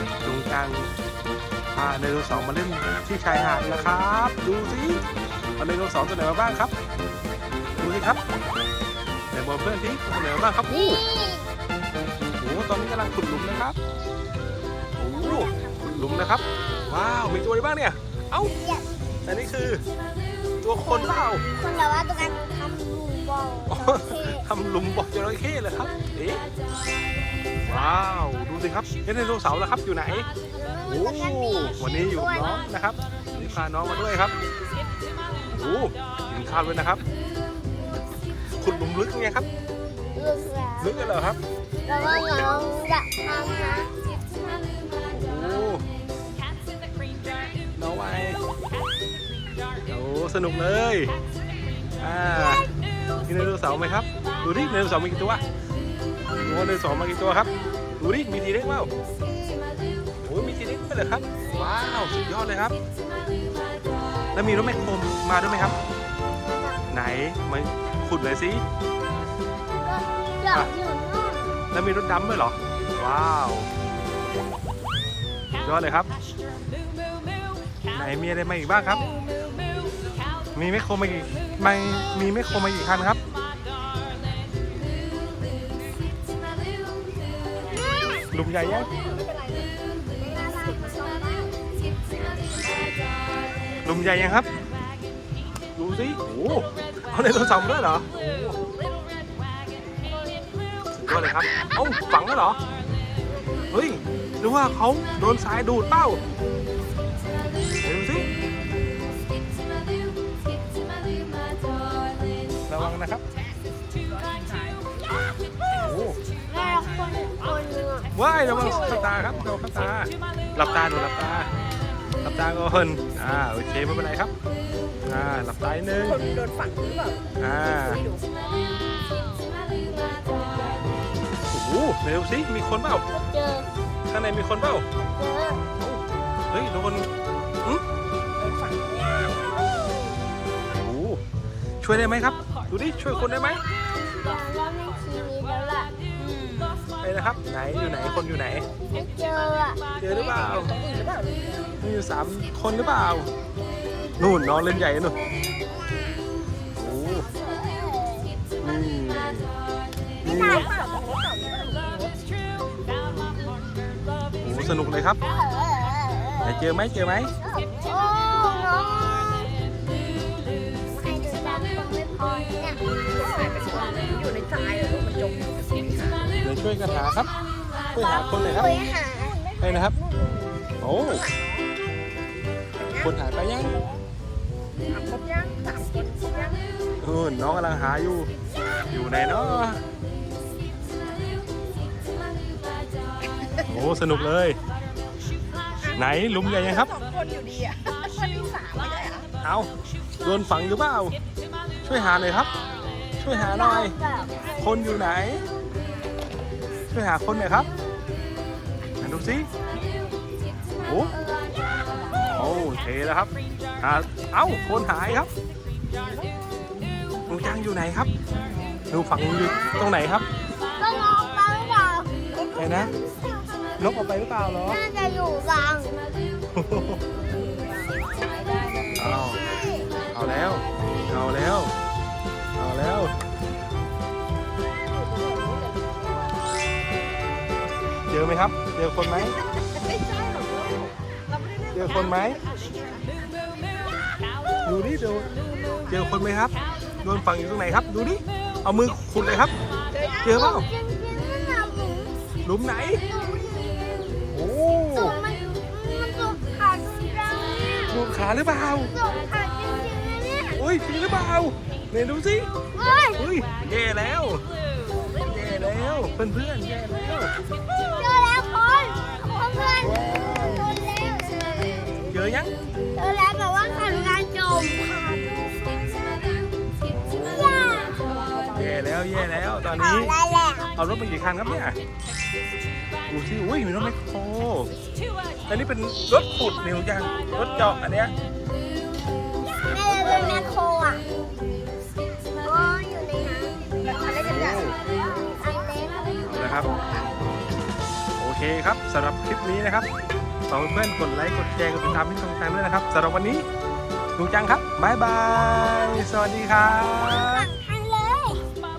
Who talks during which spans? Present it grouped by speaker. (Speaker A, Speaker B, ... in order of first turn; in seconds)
Speaker A: 0.2-0.9, 1.7-5.0, 5.6-6.7, 7.8-8.2, 9.3-11.0, 12.3-13.8, 15.0-18.5, 19.2-19.8, 20.6-21.4, 23.7-26.4, 27.7-30.3, 30.9-34.3, 35.5-37.0, 38.6-39.5, 40.8-41.4, 45.1-45.9, 47.8-48.4, 49.9-51.1, 52.0-52.7, 53.3-55.4, 56.4-58.9, 60.2-62.7, 64.3-65.8, 66.9-68.6, 71.7-73.7, 75.6-76.1, 77.9-79.0, 80.5-83.2, 88.3-88.9, 93.8-94.5, 95.7-98.6, 100.9-102.6, 103.7-106.2, 107.8-108.3, 112.7-113.2, 115.7-116.2, 118.1-121.5, 122.2-124.3, 125.0-126.2, 127.4-128.0, 131.4-133.1, 134.1-134.9, 135.8-137.1, 140.8-141.2, 141.8-143.6, 147.0-148.7, 150.0-150.7, 151.8-153.3, 154.2-155.2, 156.8-157.2, 158.6-159.5, 160.2-160.7, 162.9-163.2, 164.4-165.2, 166.4-167.3, 176.4-177.3, 177.9-178.8, 179.6-179.9, 180.8-181.2, 183.0-183.8, 187.0-188.3, 188.9-189.8, 193.7-194.6, 195.9-196.9, 199.4-199.7, 200.2-201.2, 201.8-202.5, 203.2-203.9, 204.6-205.4, 206.9-207.7, 209.0-209.5, 210.8-211.1, 212.3-215.3, 217.3-218.1, 218.9-220.3, 222.6-222.9, 223.8-224.8, 226.5-227.0, 229.0-229.4, 230.1-231.8, 232.6-233.1, 238.1-239.4, 241.7-242.4, 244.6-245.3, 245.9-249.5, 250.2-250.7, 252.4-253.0, 254.3-255.2, 257.9-258.9, 260.5-262.5, 263.2-264.4, 265.2-267.3, 269.8-270.6, 272.1-272.5, 276.9-277.9, 278.5-280.1, 280.8-281.8, 283.1-284.7, 285.5-288.1, 294.2-294.8, 296.3-296.7, 298.2-299.9, 300.5-303.5, 304.2-307.5
Speaker B: 10.7-11.5, 15.1-16.1, 18.5-18.9, 20.8-24.4, 30.5-32.6, 40.1-41.0, 41.9-43.9, 66.4-66.9, 69.8-71.6, 78.9-79.3, 87.7-88.3, 90.4-91.0, 116.5-118.1, 133.1-133.7, 135.1-135.6, 144.1-145.9, 148.9-149.8, 155.7-156.2, 156.9-158.4, 160.3-160.6, 165.2-166.7, 167.4-169.5, 170.9-172.8, 177.9-179.3, 203.3-204.4, 211.1-212.7, 220.8-223.7, 224.7-226.1, 229.1-229.9, 250.2-252.2, 252.9-254.0, 254.9-258.0, 258.7-260.6, 262.7-263.2, 267.9-272.1, 272.9-276.0, 277.1-278.0, 279.7-280.7, 289.7-291.0, 292.4-297.2, 305.4-306.1, 306.8-308.5
Speaker C: 88.4-91.6, 114.1-114.8, 118.4-119.3, 125.9-128.3, 138.4-139.7, 146.2-146.8, 150.1-151.8, 160.2-162.2, 173.1-176.3, 178.9-181.7, 182.8-183.3, 184.9-186.7, 193.4-193.8, 195.8-199.3, 216.0-217.2, 227.1-229.1, 234.7-236.5, 239.1-244.0, 245.2-245.9, 249.9-250.3, 277.9-278.9, 289.9-290.4, 293.8-294.7